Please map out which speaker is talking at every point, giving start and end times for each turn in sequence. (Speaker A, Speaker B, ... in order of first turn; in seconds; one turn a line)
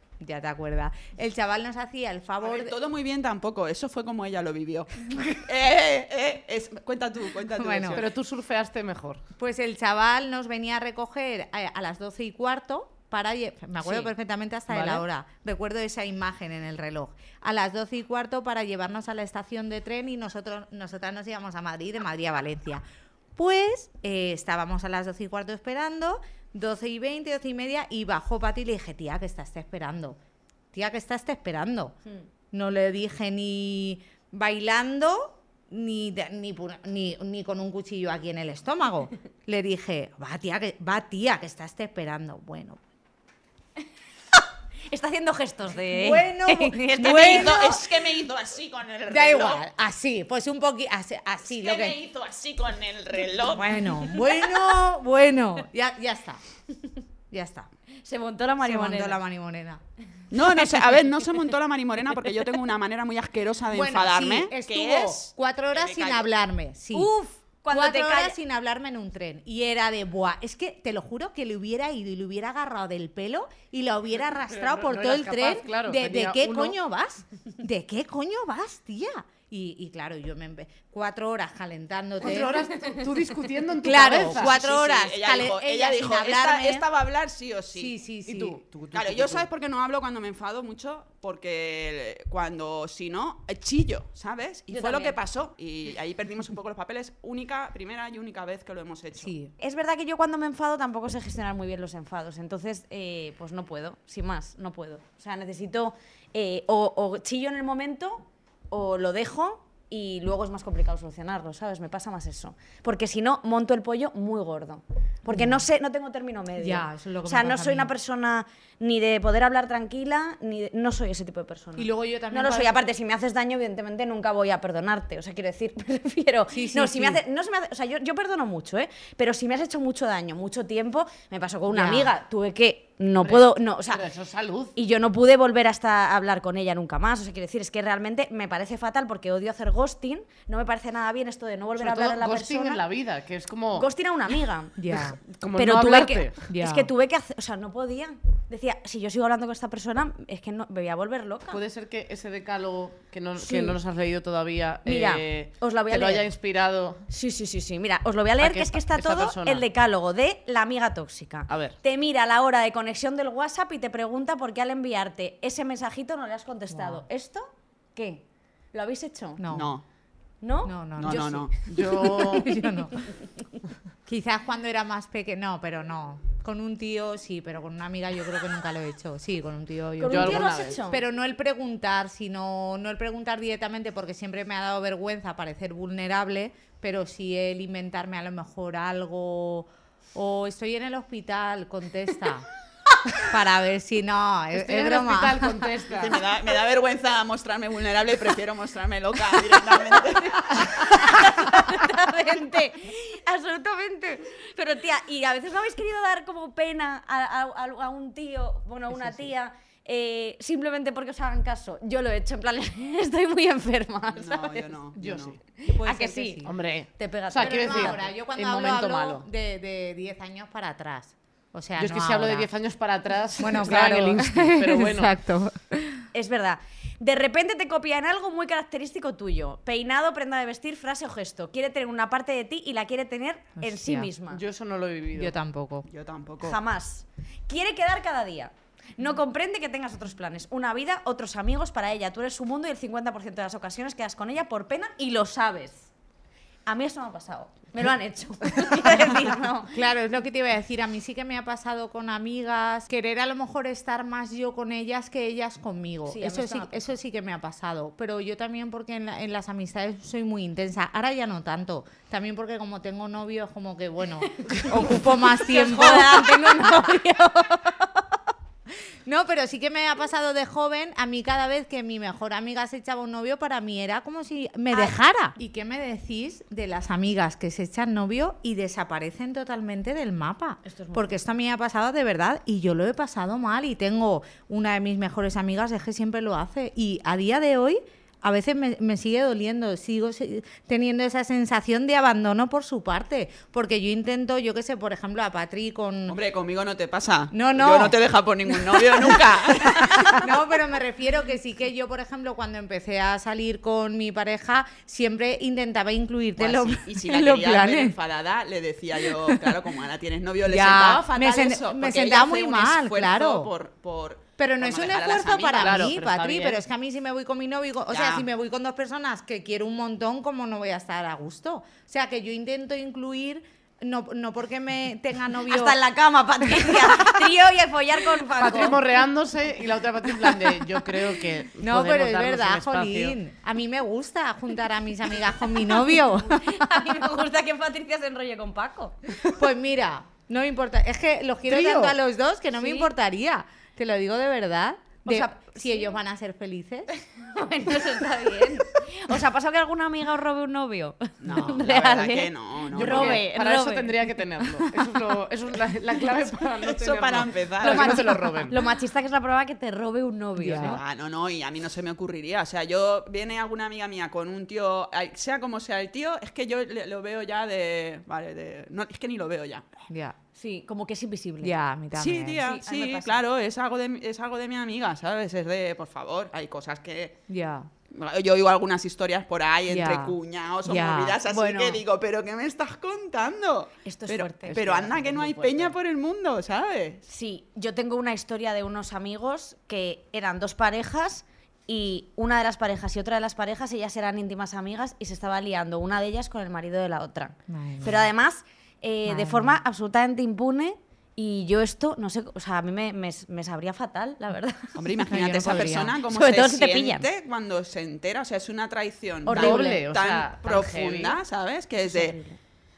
Speaker A: 0.2-2.7
Speaker B: 2.4-8.1
Speaker A: 7.6-8.0
Speaker C: 7.9-9.2
Speaker A: 9.3-22.8
Speaker C: 14.7-15.0
Speaker A: 23.3-30.2
Speaker A: 30.7-32.0
Speaker A: 32.5-42.8
Speaker D: 44.9-47.7
Speaker A: 45.9-47.9
Speaker B: 47.0-49.6
Speaker A: 49.1-52.0
Speaker B: 51.5-54.1
Speaker A: 53.5-56.4
Speaker A: 57.3-57.7
Speaker D: 58.0-59.2
Speaker A: 58.6-59.8
Speaker B: 60.3-66.2
Speaker A: 63.7-67.1
Speaker D: 66.9-68.3
Speaker A: 67.7-82.7
Speaker C: 74.5-76.7
Speaker C: 82.2-84.5
Speaker A: 83.8-86.8
Speaker B: 84.3-87.9
Speaker A: 87.7-88.6
Speaker C: 88.2-89.5
Speaker B: 88.9-99.3
Speaker D: 94.7-95.2
Speaker A: 99.2-99.5
Speaker D: 99.6-134.1
Speaker A: 115.2-115.6
Speaker A: 116.6-117.9
Speaker A: 121.8-122.8
Speaker A: 126.5-127.2
Speaker A: 131.7-132.1
Speaker C: 133.2-134.7
Speaker D: 134.7-142.8
Speaker C: 141.8-143.9
Speaker D: 143.7-144.8
Speaker A: 144.8-145.2
Speaker C: 145.4-146.4
Speaker D: 145.5-151.6
Speaker A: 146.5-146.9
Speaker C: 151.5-157.1
Speaker D: 153.4-153.8
Speaker D: 154.8-156.3
Speaker D: 157.1-169.4
Speaker C: 158.4-159.6
Speaker C: 161.5-161.8
Speaker A: 166.7-167.0
Speaker A: 169.4-169.7
Speaker B: 169.5-169.8
Speaker D: 170.4-172.5
Speaker A: 170.6-173.1
Speaker B: 171.0-172.1
Speaker C: 171.6-172.6
Speaker A: 174.1-192.4
Speaker D: 180.0-181.0
Speaker C: 180.1-180.8
Speaker A: 193.2-195.7
Speaker C: 194.5-196.2
Speaker B: 195.9-201.3
Speaker D: 200.5-214.7
Speaker B: 214.1-215.4
Speaker C: 215.0-215.4
Speaker D: 215.6-216.4
Speaker A: 215.7-216.5
Speaker C: 216.4-219.2
Speaker D: 216.9-218.0
Speaker A: 217.4-222.5
Speaker C: 221.8-225.1
Speaker A: 223.4-226.0
Speaker D: 226.1-234.4
Speaker A: 233.6-234.1
Speaker C: 234.3-235.3
Speaker A: 235.1-235.9
Speaker B: 235.9-236.6
Speaker D: 236.4-245.9
Speaker D: 246.7-249.8
Speaker A: 248.8-249.2
Speaker A: 249.7-266.9
Speaker D: 256.1-256.9
Speaker D: 264.4-267.9
Speaker A: 269.0-296.2
Speaker D: 280.6-281.2
Speaker B: 296.1-300.4
Speaker A: 297.3-307.9
Speaker B: 306.4-315.9
Speaker A: 309.0-309.6
Speaker A: 310.4-313.5
Speaker A: 314.4-325.8
Speaker C: 315.6-316.6
Speaker B: 317.9-318.2
Speaker D: 325.4-328.8
Speaker A: 326.4-327.2
Speaker C: 328.4-333.1
Speaker A: 330.2-330.5
Speaker A: 331.6-336.7
Speaker D: 336.2-339.0
Speaker A: 339.2-346.9
Speaker C: 341.5-341.9
Speaker D: 342.6-342.9
Speaker D: 345.0-345.9
Speaker D: 347.1-354.6
Speaker B: 351.2-353.2
Speaker C: 352.7-358.6
Speaker B: 356.6-358.2
Speaker D: 357.6-360.8
Speaker A: 360.4-360.8
Speaker B: 360.6-369.7
Speaker A: 369.9-370.1
Speaker D: 370.3-371.5
Speaker A: 371.4-372.4
Speaker B: 371.9-377.2
Speaker D: 372.4-373.2
Speaker A: 377.3-377.7
Speaker B: 377.9-387.0
Speaker A: 379.7-381.2
Speaker D: 381.3-381.8
Speaker D: 383.8-384.7
Speaker C: 384.5-385.7
Speaker D: 387.1-404.8
Speaker A: 397.5-398.1
Speaker A: 399.1-399.6
Speaker B: 404.8-412.2
Speaker A: 405.1-405.9
Speaker D: 406.1-407.1
Speaker D: 409.2-409.8
Speaker C: 409.3-411.2
Speaker D: 411.8-412.4